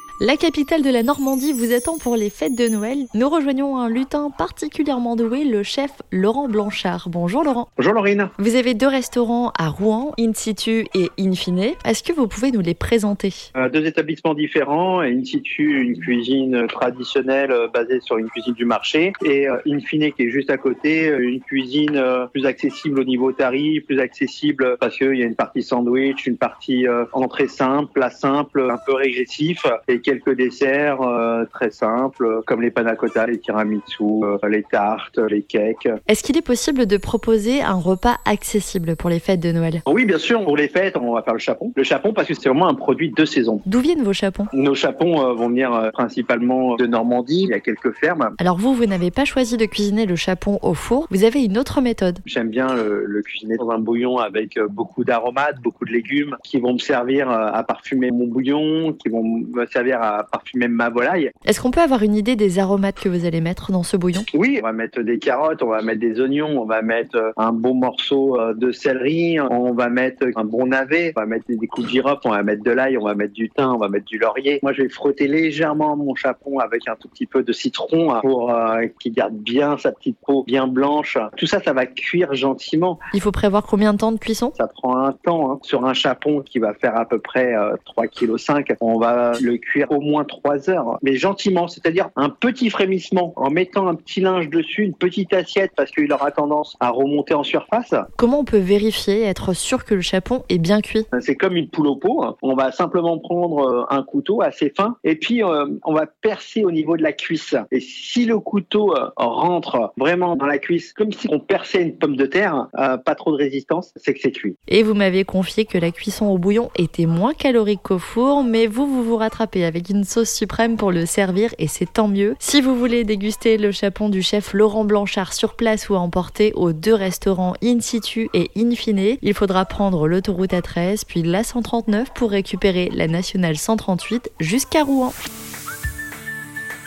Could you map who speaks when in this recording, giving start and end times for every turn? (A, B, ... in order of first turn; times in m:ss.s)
0:00.2-0:07.7 A
0:07.8-0:08.3 B
0:08.4-0:13.5 A
0:13.6-0:35.9 B
0:36.1-0:39.8 A
0:39.9-0:43.6 B
0:43.6-0:44.5 A
0:44.5-0:48.4 B
0:48.4-0:52.2 A
0:52.2-1:01.3 B
1:01.5-1:04.3 A
1:04.3-1:23.0 B
1:23.1-1:24.5 A
1:24.6-1:38.1 B
1:38.2-1:41.1 A
1:41.1-1:54.6 B
1:54.7-2:15.2 A